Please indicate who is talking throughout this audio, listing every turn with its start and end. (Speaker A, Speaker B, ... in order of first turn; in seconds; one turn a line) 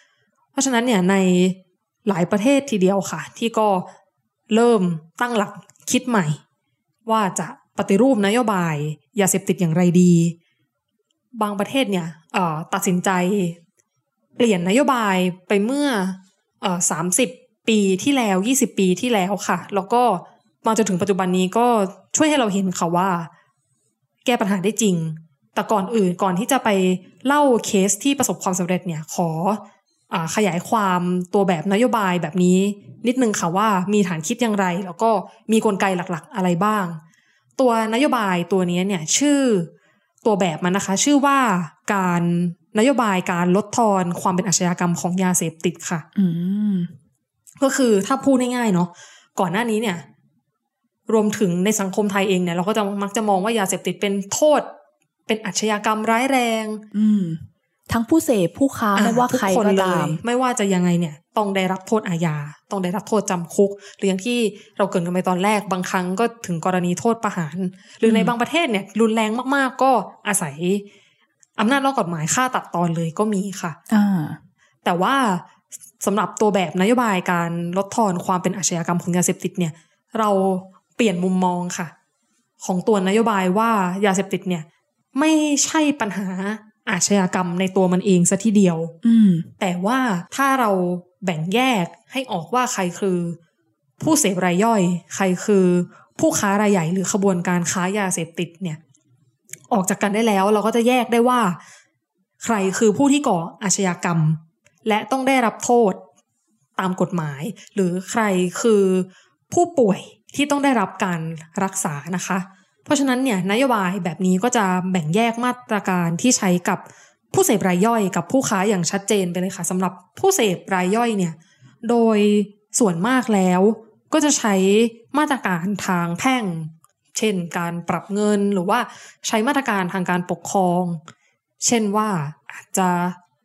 Speaker A: 0.5-3.9
Speaker A: 4.5-6.4
Speaker A: 7.0-10.3
Speaker A: 11.3-13.6
Speaker A: 14.4-23.3
Speaker A: 24.2-37.0
Speaker A: 37.6-39.7
Speaker A: 40.2-46.0
Speaker B: 46.1-46.9
Speaker A: 47.6-50.0
Speaker A: 51.1-54.7
Speaker A: 55.3-56.8
Speaker B: 56.9-60.2
Speaker A: 59.0-70.8
Speaker B: 68.0-68.3
Speaker A: 71.6-73.8
Speaker B: 73.9-74.4
Speaker A: 74.8-75.4
Speaker A: 76.0-81.9
Speaker A: 82.6-88.9
Speaker B: 89.0-89.5
Speaker A: 89.6-93.4
Speaker A: 94.0-98.8
Speaker A: 99.7-101.6
Speaker A: 102.4-106.0
Speaker A: 106.8-131.0
Speaker A: 131.6-133.2